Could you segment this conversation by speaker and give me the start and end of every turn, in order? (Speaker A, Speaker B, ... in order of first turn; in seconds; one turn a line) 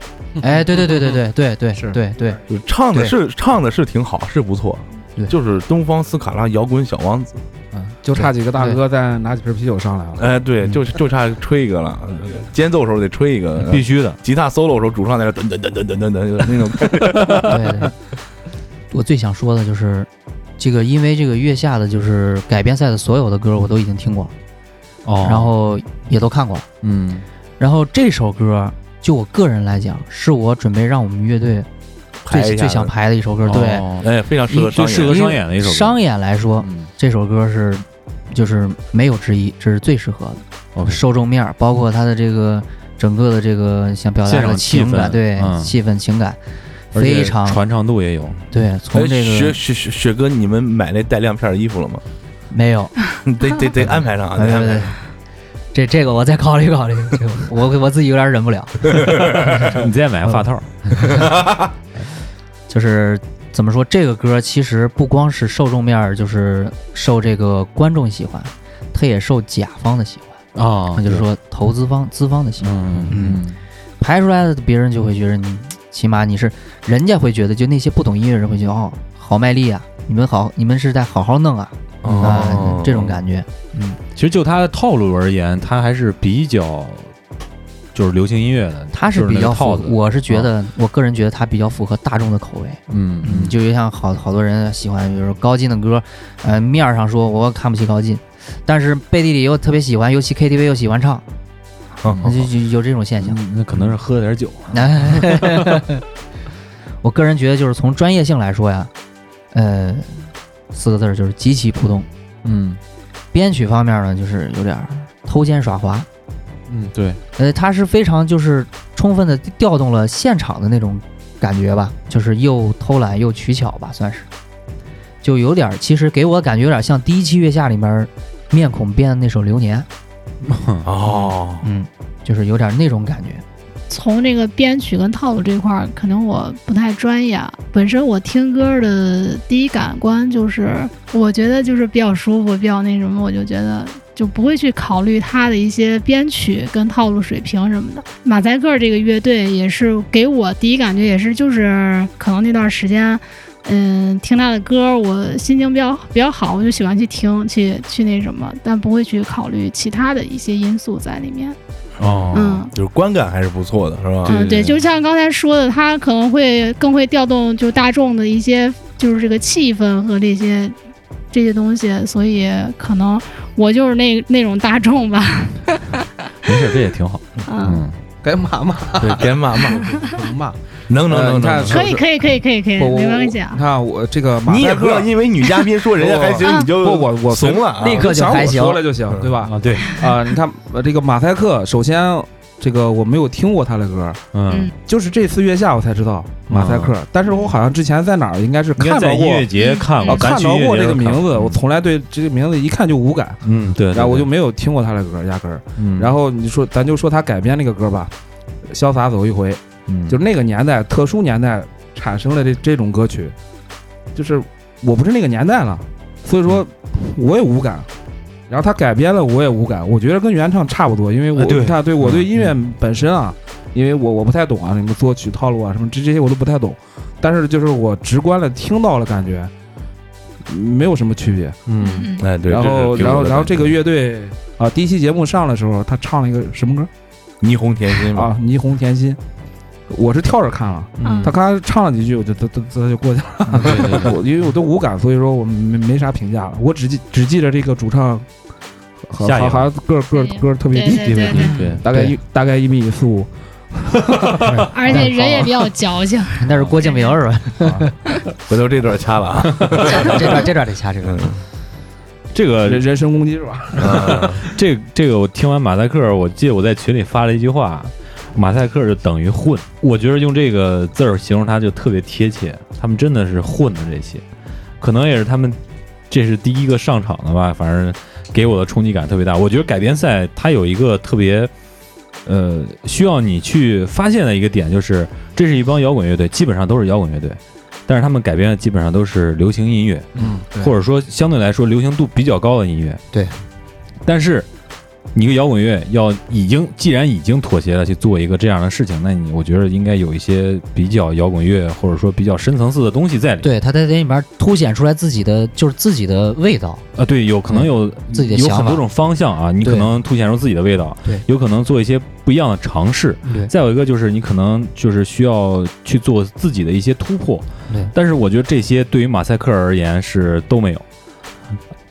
Speaker A: 0.3-1.2
Speaker B: 0.4-3.1
Speaker A: 1.8-2.0
Speaker C: 2.5-7.4
Speaker A: 7.7-10.3
Speaker B: 8.2-8.8
Speaker C: 10.2-17.6
Speaker D: 13.6-14.2
Speaker B: 17.5-17.9
Speaker B: 18.9-24.3
Speaker D: 25.1-25.5
Speaker B: 25.2-26.7
Speaker D: 26.8-27.3
Speaker B: 27.6-31.7
Speaker C: 32.2-32.9
Speaker B: 32.3-33.9
Speaker D: 33.4-34.1
Speaker C: 34.0-35.2
Speaker B: 34.5-46.4
Speaker D: 34.7-36.0
Speaker D: 36.6-36.9
Speaker D: 40.8-41.0
Speaker D: 44.2-45.7
Speaker B: 46.9-47.6
Speaker D: 46.9-48.4
Speaker B: 48.5-49.6
Speaker C: 48.9-52.0
Speaker B: 52.5-53.0
Speaker C: 53.2-55.0
Speaker B: 54.3-55.0
Speaker B: 55.7-59.7
Speaker C: 58.9-59.8
Speaker D: 59.6-60.8
Speaker B: 60.3-61.3
Speaker C: 61.0-61.7
Speaker B: 62.7-70.3
Speaker D: 70.5-71.3
Speaker B: 70.9-73.4
Speaker D: 72.6-73.6
Speaker B: 74.0-84.0
Speaker C: 82.0-83.2
Speaker D: 82.0-82.8
Speaker D: 84.2-87.1
Speaker D: 87.9-90.5
Speaker B: 88.9-101.2
Speaker D: 92.9-93.6
Speaker C: 102.0-102.3
Speaker D: 102.0-102.3
Speaker B: 102.2-103.9
Speaker D: 103.2-105.8
Speaker B: 104.7-106.0
Speaker B: 107.0-108.9
Speaker B: 109.5-112.1
Speaker D: 112.4-112.8
Speaker B: 113.3-116.1
Speaker D: 116.7-117.2
Speaker B: 117.4-124.3
Speaker B: 125.2-129.9
Speaker D: 130.4-130.9
Speaker C: 130.8-131.7
Speaker B: 131.1-133.4
Speaker E: 133.9-161.6
Speaker D: 162.0-162.7
Speaker E: 162.3-162.7
Speaker C: 162.8-164.4
Speaker D: 164.2-164.8
Speaker E: 164.3-170.8
Speaker E: 171.3-176.1
Speaker D: 176.4-177.9
Speaker E: 177.4-177.8
Speaker A: 178.2-182.0
Speaker C: 179.0-180.0
Speaker C: 180.9-182.0
Speaker E: 181.7-183.6
Speaker A: 182.8-185.1
Speaker C: 184.4-188.1
Speaker A: 185.9-194.2
Speaker E: 186.4-186.7
Speaker B: 187.8-188.8
Speaker D: 189.4-190.0
Speaker D: 194.3-194.7
Speaker A: 194.8-208.1
Speaker D: 196.5-197.0
Speaker D: 198.8-201.6
Speaker E: 199.6-200.3
Speaker D: 203.4-204.3
Speaker D: 205.8-206.1
Speaker A: 208.7-213.3
Speaker D: 209.9-210.2
Speaker A: 214.1-217.9
Speaker A: 218.5-229.5
Speaker D: 221.3-222.5
Speaker A: 230.5-231.6
Speaker D: 231.7-232.1
Speaker E: 231.8-232.3
Speaker C: 232.2-233.7
Speaker A: 232.4-236.9
Speaker C: 237.4-238.3
Speaker A: 238.0-239.2
Speaker A: 239.9-248.3
Speaker D: 241.0-241.4
Speaker E: 241.0-241.3
Speaker D: 243.5-244.2
Speaker A: 249.1-255.0
Speaker D: 249.2-249.7
Speaker E: 250.1-251.6
Speaker D: 251.0-251.8
Speaker B: 251.5-252.2
Speaker D: 254.2-254.7
Speaker E: 254.7-257.2
Speaker B: 254.9-255.5
Speaker B: 256.4-257.9
Speaker C: 258.5-260.5
Speaker B: 259.7-261.3
Speaker C: 261.0-261.4
Speaker D: 262.3-262.9
Speaker A: 262.6-264.3
Speaker C: 263.8-264.4
Speaker D: 263.8-274.2
Speaker D: 274.8-275.6
Speaker D: 276.1-281.5
Speaker D: 282.3-293.0
Speaker A: 290.2-290.4
Speaker D: 294.1-294.5
Speaker D: 295.1-303.5
Speaker B: 303.4-306.9
Speaker D: 307.0-320.9
Speaker B: 307.5-308.9
Speaker B: 309.6-309.9
Speaker B: 313.2-313.5